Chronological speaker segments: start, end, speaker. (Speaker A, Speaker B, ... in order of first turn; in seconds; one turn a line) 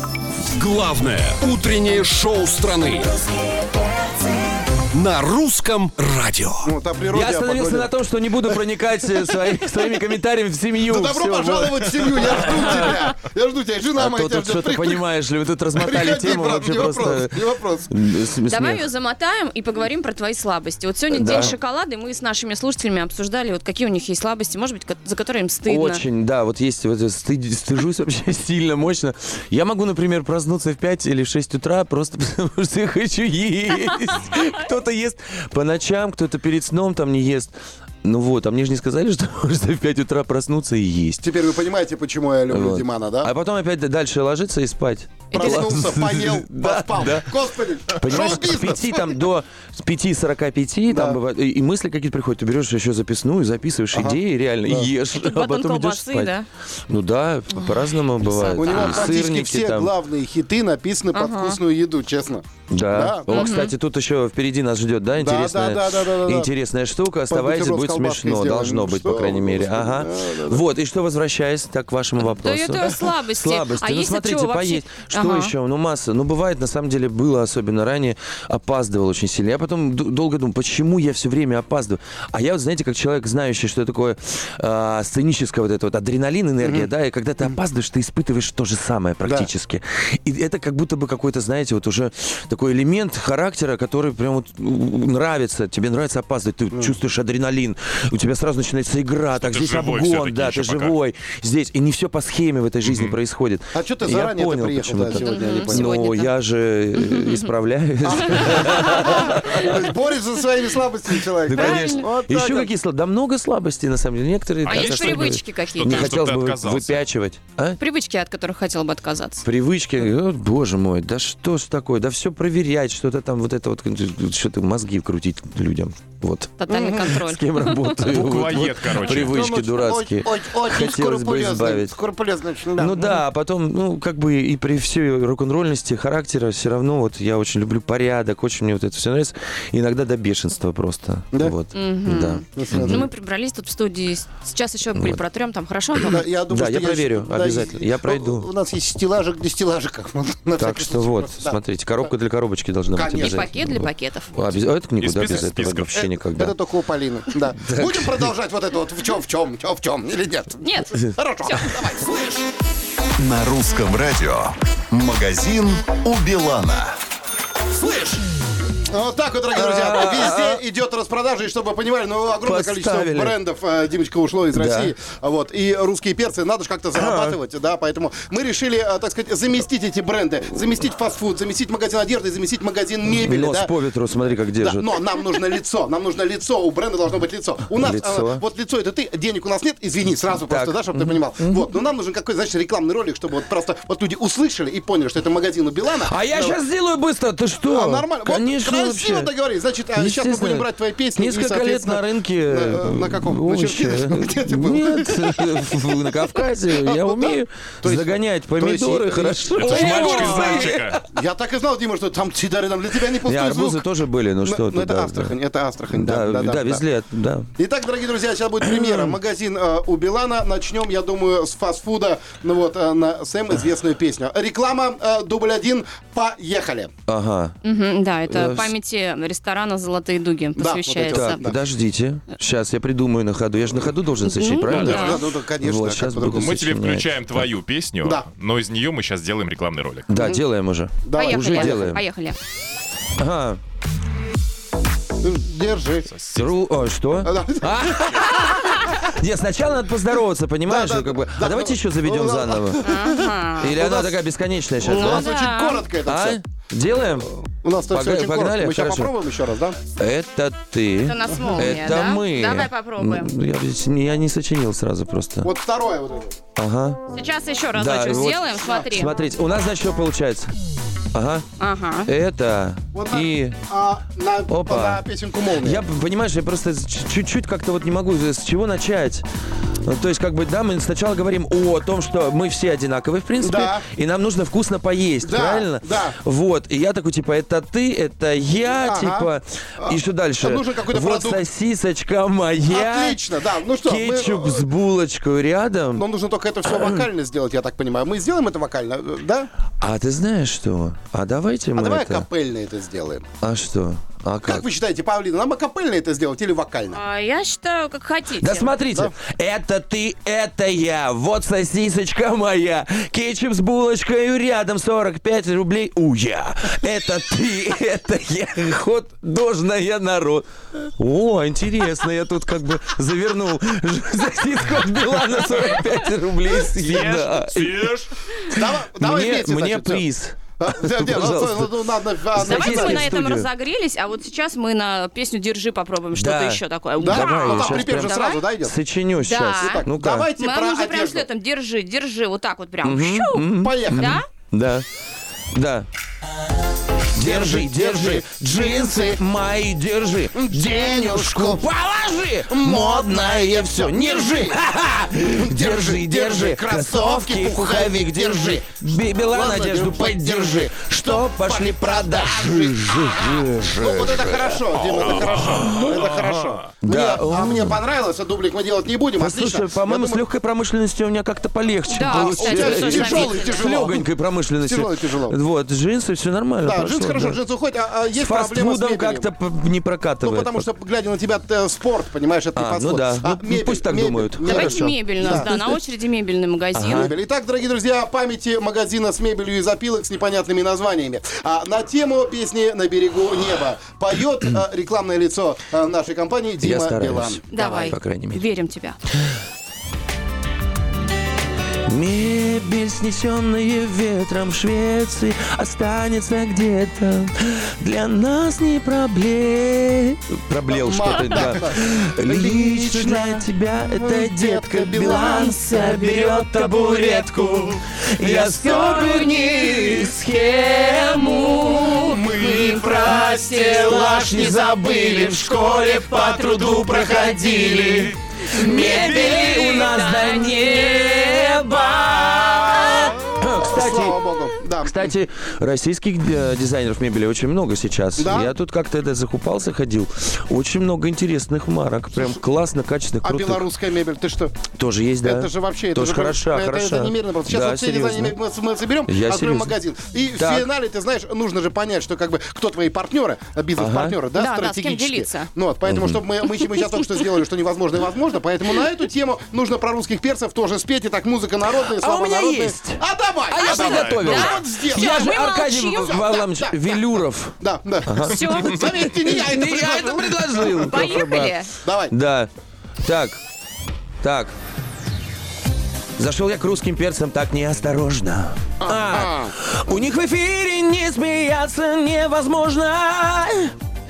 Speaker A: 0.6-3.1
Speaker A: 4.9-6.7
Speaker B: 6.7-7.9
Speaker C: 7.1-13.2
Speaker B: 10.8-15.0
Speaker C: 14.0-18.9
Speaker B: 15.8-17.9
Speaker D: 18.5-26.0
Speaker C: 21.1-21.6
Speaker C: 25.7-41.3
Speaker B: 41.2-43.3
Speaker C: 42.5-56.3
Speaker D: 45.3-45.7
Speaker B: 45.3-49.2
Speaker B: 50.9-51.2
Speaker B: 53.9-54.9
Speaker D: 55.1-56.5
Speaker C: 56.9-59.9
Speaker D: 58.3-59.2
Speaker B: 58.6-63.5
Speaker D: 61.1-61.6
Speaker C: 62.7-109.9
Speaker D: 63.3-63.7
Speaker B: 65.2-66.5
Speaker B: 67.3-70.6
Speaker D: 72.2-75.5
Speaker B: 86.6-86.9
Speaker E: 99.3-101.0
Speaker E: 102.8-103.2
Speaker B: 103.7-106.0
Speaker D: 105.2-106.3
Speaker D: 107.0-107.5
Speaker B: 108.0-112.7
Speaker C: 111.4-117.8
Speaker D: 111.5-112.1
Speaker E: 114.7-117.1
Speaker D: 114.7-116.1
Speaker D: 117.8-119.5
Speaker C: 119.4-132.0
Speaker D: 126.6-128.0
Speaker B: 126.7-127.1
Speaker E: 128.1-129.4
Speaker B: 129.1-133.2
Speaker C: 132.8-143.1
Speaker D: 141.7-146.2
Speaker B: 142.5-143.1
Speaker C: 144.9-145.2
Speaker B: 146.0-151.6
Speaker C: 146.5-148.5
Speaker C: 150.6-156.6
Speaker B: 152.9-153.5
Speaker D: 153.2-154.6
Speaker E: 155.0-156.0
Speaker B: 155.9-162.3
Speaker C: 157.6-158.3
Speaker D: 160.6-161.7
Speaker F: 163.2-166.9
Speaker A: 167.8-168.2
Speaker B: 168.9-183.7
Speaker C: 169.5-170.6
Speaker C: 172.4-173.4
Speaker C: 174.5-174.9
Speaker C: 176.9-177.4
Speaker C: 183.1-185.1
Speaker B: 184.6-196.6
Speaker C: 187.7-188.4
Speaker C: 190.3-191.7
Speaker C: 196.0-199.3
Speaker B: 197.7-213.8
Speaker C: 199.9-211.0
Speaker E: 209.6-211.0
Speaker C: 213.1-215.4
Speaker B: 214.4-216.8
Speaker C: 215.9-217.5
Speaker B: 217.6-226.9
Speaker C: 218.6-219.2
Speaker C: 227.1-227.6
Speaker D: 227.6-231.4
Speaker C: 228.3-228.7
Speaker B: 230.6-231.6
Speaker C: 231.1-237.5
Speaker D: 234.2-235.2
Speaker E: 234.7-235.1
Speaker B: 234.7-236.5
Speaker E: 236.3-240.1
Speaker C: 240.1-242.0
Speaker B: 240.1-240.4
Speaker B: 241.1-241.8
Speaker D: 241.2-242.4
Speaker C: 243.2-243.6
Speaker B: 245.2-246.1
Speaker E: 246.1-246.5
Speaker C: 246.3-252.8
Speaker B: 247.2-248.7
Speaker B: 250.7-254.1
Speaker D: 252.8-253.7
Speaker C: 253.6-255.3
Speaker B: 254.8-256.4
Speaker D: 254.8-255.8
Speaker C: 256.1-257.3
Speaker B: 257.6-259.8
Speaker C: 257.9-259.1
Speaker C: 260.0-265.5
Speaker D: 261.1-263.3
Speaker B: 261.4-261.8
Speaker B: 265.4-266.4
Speaker C: 266.6-267.0
Speaker D: 267.1-269.1
Speaker C: 267.7-270.5
Speaker B: 268.6-268.9
Speaker C: 271.1-271.5
Speaker D: 271.6-272.1
Speaker C: 272.1-273.6
Speaker B: 272.9-275.8
Speaker C: 274.5-275.0
Speaker C: 275.6-279.3
Speaker C: 279.8-293.2
Speaker B: 283.4-283.8
Speaker B: 285.2-286.2
Speaker B: 288.8-291.4
Speaker B: 292.7-294.7
Speaker C: 293.8-296.1
Speaker B: 296.0-299.5
Speaker C: 296.6-297.1
Speaker C: 299.8-302.3
Speaker B: 301.8-303.2
Speaker C: 303.4-304.7
Speaker B: 304.4-307.0
Speaker D: 306.9-308.7
Speaker C: 308.4-327.9
Speaker E: 326.7-328.1
Speaker C: 328.5-331.8
Speaker B: 328.5-330.0
Speaker B: 330.6-333.1
Speaker C: 332.3-333.5
Speaker D: 332.4-338.4
Speaker C: 336.1-340.3
Speaker B: 337.0-338.8
Speaker D: 339.2-339.9
Speaker B: 339.5-341.3
Speaker D: 340.4-344.2
Speaker C: 342.8-344.9
Speaker B: 343.5-344.1
Speaker C: 345.5-345.9
Speaker B: 347.1-349.2
Speaker C: 347.1-366.1
Speaker B: 350.3-351.6
Speaker B: 352.5-354.6
Speaker B: 355.3-358.7
Speaker B: 359.2-370.2
Speaker E: 364.8-366.7
Speaker C: 366.8-367.8
Speaker C: 369.1-377.4
Speaker D: 371.9-373.6
Speaker B: 372.1-374.1
Speaker B: 374.6-375.4
Speaker B: 376.6-379.3
Speaker C: 378.1-380.7
Speaker B: 380.2-385.5
Speaker C: 382.6-385.8
Speaker D: 384.4-387.1
Speaker C: 386.8-387.1
Speaker B: 386.8-397.9
Speaker C: 396.6-398.4
Speaker D: 397.5-399.0
Speaker C: 401.9-443.7
Speaker B: 410.7-416.1
Speaker D: 418.4-424.8
Speaker B: 418.5-419.2
Speaker B: 421.9-429.7
Speaker D: 426.1-427.3
Speaker D: 428.5-431.9
Speaker B: 433.4-435.1
Speaker B: 438.2-438.5
Speaker B: 442.2-442.4
Speaker B: 443.2-444.7
Speaker C: 444.7-448.4
Speaker B: 445.2-465.4
Speaker C: 449.1-449.8
Speaker C: 450.4-450.7
Speaker C: 453.8-454.2
Speaker D: 454.4-455.5
Speaker C: 455.9-456.2
Speaker C: 461.8-471.6
Speaker D: 463.6-466.3
Speaker E: 463.7-464.4
Speaker B: 466.1-466.8
Speaker B: 467.6-471.2
Speaker D: 468.2-469.1
Speaker D: 470.8-471.7
Speaker B: 471.8-472.1
Speaker C: 472.1-472.5
Speaker C: 473.0-473.4
Speaker C: 474.2-474.6
Speaker C: 476.2-483.7
Speaker B: 478.8-479.5